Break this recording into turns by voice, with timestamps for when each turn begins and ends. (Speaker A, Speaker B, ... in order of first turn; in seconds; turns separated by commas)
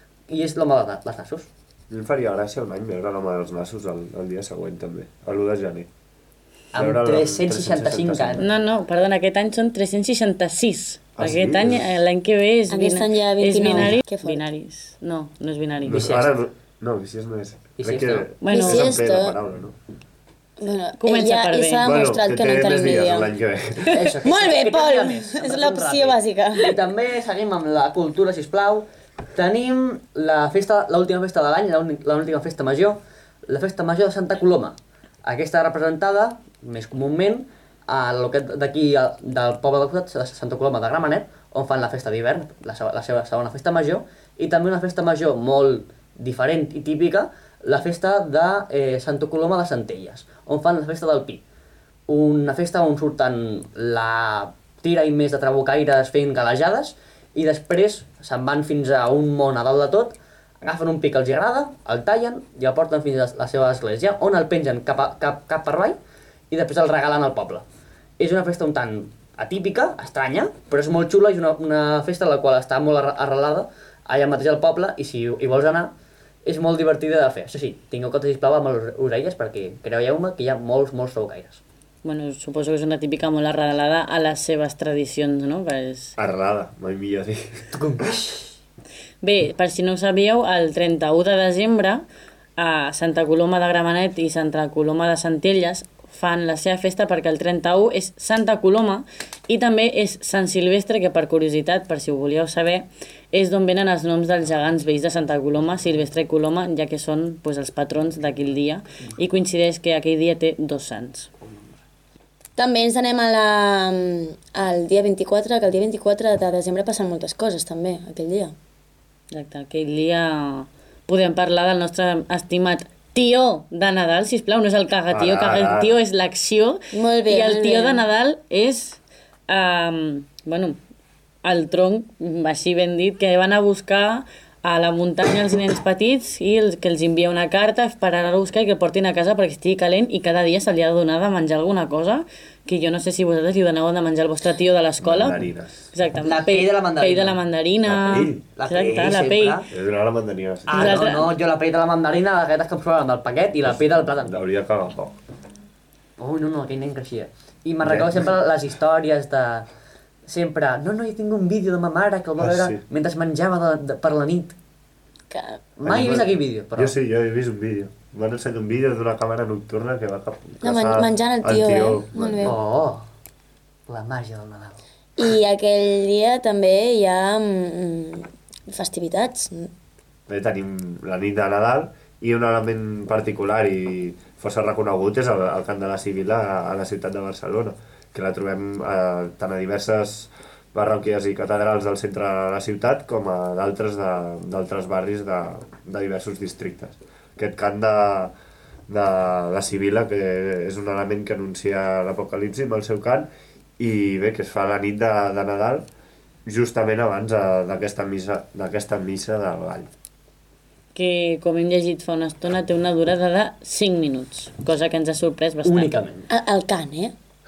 Speaker A: 0.3-1.5, Speaker B: 1.9-5.9, Speaker A: 6.7-8.4, Speaker B: 6.7-8.4, Speaker C: 8.4-16.1, Speaker B: 11.2-11.9, Speaker D: 12.7-14.4, Speaker B: 15.8-19.7, Speaker A: 15.9-16.3, Speaker A: 17.8-18.3, Speaker C: 18.4-19.0, Speaker D: 18.5-19.4, Speaker D: 20.6-23.3, Speaker C: 21.0-21.9, Speaker B: 21.8-24.0, Speaker D: 23.9-26.8, Speaker A: 23.9-51.4, Speaker A: 52.1-66.0, Speaker A: 66.5-67.6, Speaker A: 68.2-75.9, Speaker A: 76.4-81.6, Speaker C: 82.0-86.1, Speaker B: 86.2-87.7, Speaker A: 87.7-88.5, Speaker C: 89.2-92.0, Speaker C: 92.6-111.3, Speaker D: 112.6-118.5, Speaker C: 119.3-130.8, Speaker B: 125.1-125.9, Speaker D: 126.9-128.0, Speaker C: 131.4-149.6, Speaker B: 145.0-145.9, Speaker A: 146.2-147.4, Speaker B: 147.8-148.4, Speaker A: 148.1-149.7, Speaker B: 149.7-151.1, Speaker A: 150.7-154.3, Speaker C: 150.7-151.3, Speaker B: 153.7-155.2, Speaker A: 156.2-159.7, Speaker B: 157.8-158.3, Speaker A: 160.2-164.6, Speaker B: 162.4-162.8, Speaker D: 165.3-165.6, Speaker A: 165.8-166.9, Speaker B: 165.8-172.6, Speaker D: 170.6-172.6, Speaker A: 172.4-173.0, Speaker A: 173.9-174.8, Speaker D: 175.2-179.7, Speaker B: 180.3-198.3, Speaker B: 198.9-205.8, Speaker B: 206.4-209.9, Speaker C: 210.9-215.9, Speaker A: 215.6-216.3, Speaker D: 216.3-217.1